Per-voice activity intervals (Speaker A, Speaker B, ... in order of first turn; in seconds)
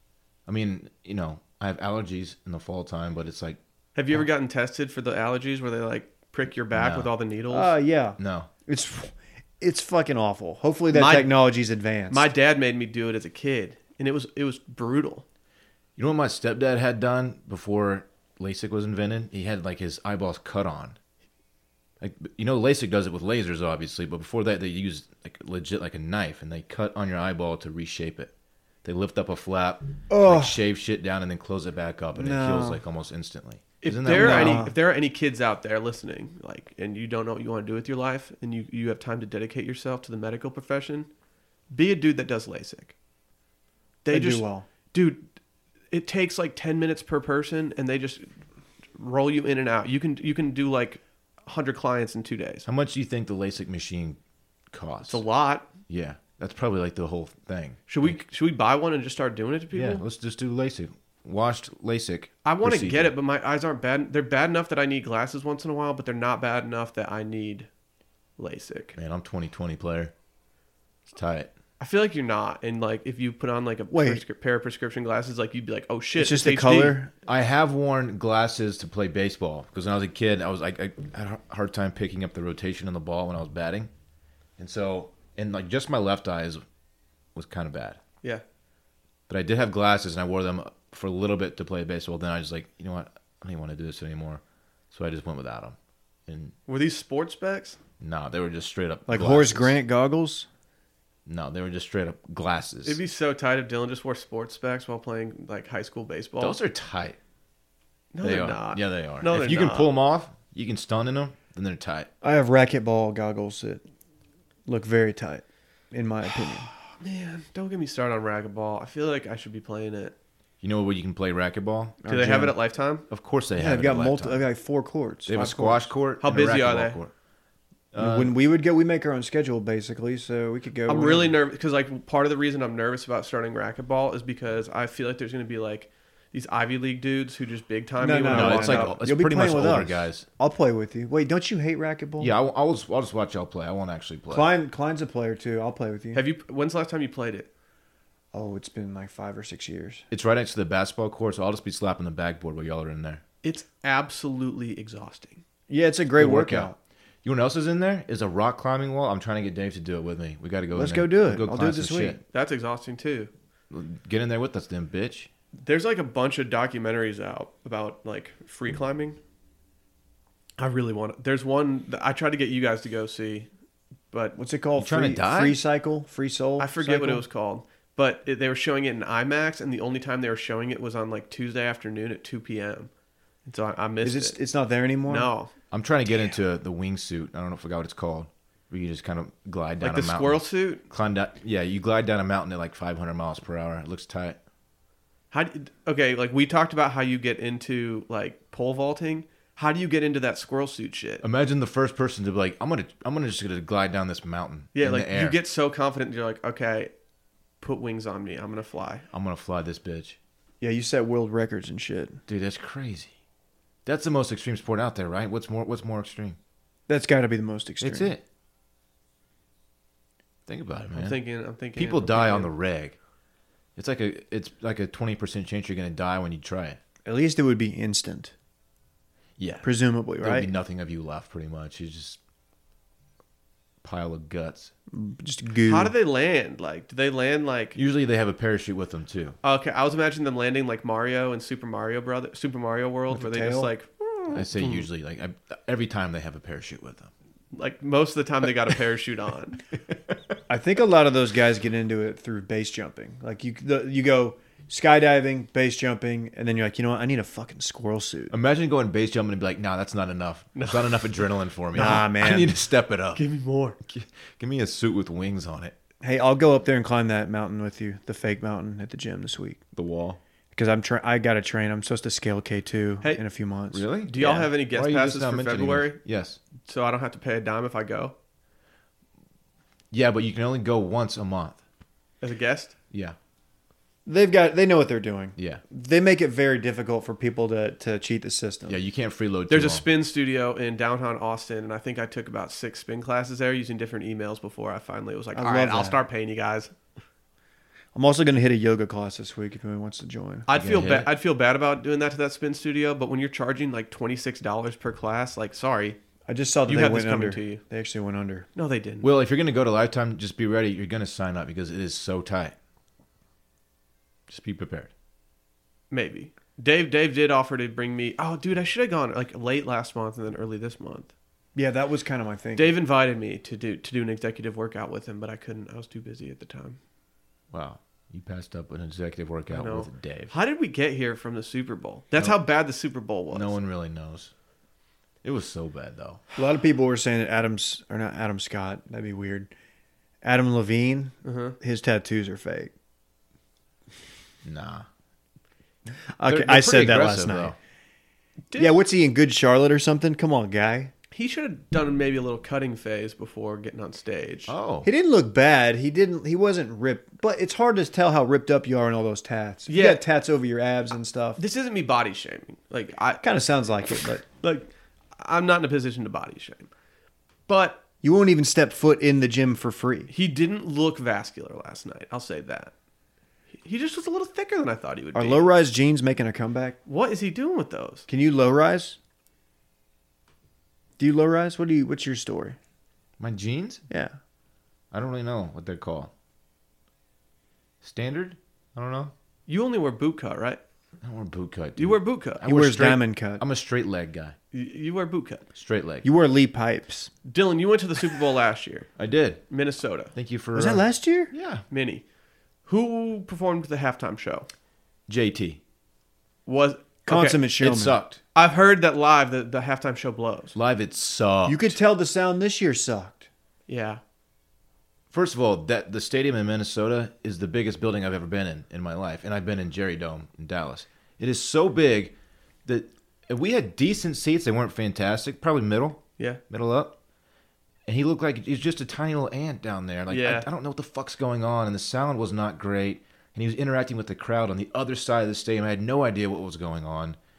Speaker A: 0.5-3.6, 6.7-7.1, 8.2-8.5, 16.0-21.0, 22.0-28.3, 28.8-34.7, 52.7-54.2, 54.7-55.2, 55.9-58.2, 59.7-63.1, 69.0-70.1, 71.1-71.5, 77.3-83.9, 84.6-86.6, 87.3-88.0, 89.3-95.8, 96.3-96.5, 98.0-99.8, 101.3-103.0, 106.4-107.2, 108.2-112.1, 120.6-122.0, 123.1-124.4, 125.3-127.1, 127.9-128.4, 138.3-140.3, 142.2-144.5, 150.1-153.2, 156.2-162.2, 163.7-165.3, 174.8-175.6, 185.7-194.4, 201.2-205.4, 209.1-210.2, 212.3-213.1, 213.9-216.4, 217.8-218.2, 220.5-221.2, 221.7-223.0, 223.8-226.8, 229.4-232.2, 233.8-234.7, 237.8-239.4, 244.3-247.1, 258.3-263.2, 263.9-265.7, 269.7-270.2, 273.7-276.4, 279.9-281.6, 285.4-285.6, 288.7-289.9, 300.5-301.1, 309.0-312.5, 314.3-314.9, 327.5-330.3, 333.3-334.3, 335.2-336.2, 344.4-344.9, 346.2-347.6, 354.5-354.9, 383.2-383.8, 384.9-386.1, 387.8-389.1, 391.0-394.4, 395.6-396.1, 399.0-399.4, 400.1-401.6, 405.1-405.6, 407.6-408.2, 410.6-411.8, 415.1-422.1, 422.7-426.9, 427.9-437.2
Speaker B: 4.0-7.7, 10.9-11.3, 12.1-15.2, 33.8-41.1, 41.7-43.0, 44.0-45.2, 45.9-48.3, 49.0-52.6, 55.1-55.7, 57.9-60.0, 62.5-67.7, 68.4-69.0, 71.8-77.0, 96.7-97.8, 102.8-106.6, 108.1-109.9, 116.5-120.1, 122.1-123.0, 125.3-127.0, 130.9-139.0, 146.1-147.5, 153.4-155.4, 162.3-163.3, 165.6-169.2, 170.6-173.5, 174.1-174.4, 176.6-182.9, 183.5-184.4, 185.1-185.5, 189.8-190.8, 195.3-201.2, 204.8-206.9, 207.6-209.0, 220.9-222.5, 235.7-237.8, 239.4-244.9, 247.5-249.6, 260.6-261.0, 261.8-262.1, 263.1-263.8, 274.1-276.0, 276.6-278.1, 282.2-282.7, 289.5-296.7, 300.5-306.0, 306.7-307.6, 308.6-309.1, 315.9-321.1, 322.6-326.8, 329.5-333.6, 341.2-341.6, 351.1-354.6, 359.7-360.0, 361.4-363.2, 364.4-366.7, 367.5-367.8, 370.1-372.7, 373.6-375.5, 376.9-378.1, 389.5-390.6, 391.8-392.4, 394.5-395.4, 397.2-398.9, 399.5-400.1, 401.7-402.0, 402.7-404.5, 406.5-407.4, 408.4-410.6, 413.7-414.0, 430.1-430.5
Speaker C: 7.5-12.3, 30.1-30.6, 32.1-32.8, 34.1-34.7, 44.1-44.7, 73.9-74.2, 76.2-77.1, 99.1-100.5, 112.2-113.8, 114.7-116.7, 122.0-122.6, 123.5-125.5, 128.0-131.4, 138.0-142.3, 144.3-146.2, 148.3-150.1, 155.7-156.8, 160.7-162.2, 174.4-177.2, 184.0-185.3, 210.6-212.2, 216.9-218.1, 227.1-228.3, 229.6-230.5, 234.9-235.9, 243.1-243.7, 250.5-258.3, 261.8-262.5, 266.0-269.6, 270.5-273.8, 284.1-288.8, 295.4-296.0, 297.9-300.5, 306.3-308.5, 321.6-322.8, 336.4-339.5, 340.2-342.7, 346.2-347.6, 348.6-350.9, 354.8-361.4, 363.2-364.2, 368.0-370.1, 375.1-376.8, 378.1-379.0, 381.0-382.6, 383.9-384.1, 392.4-393.4, 396.0-397.1, 400.6-401.3, 407.1-408.0, 411.5-413.3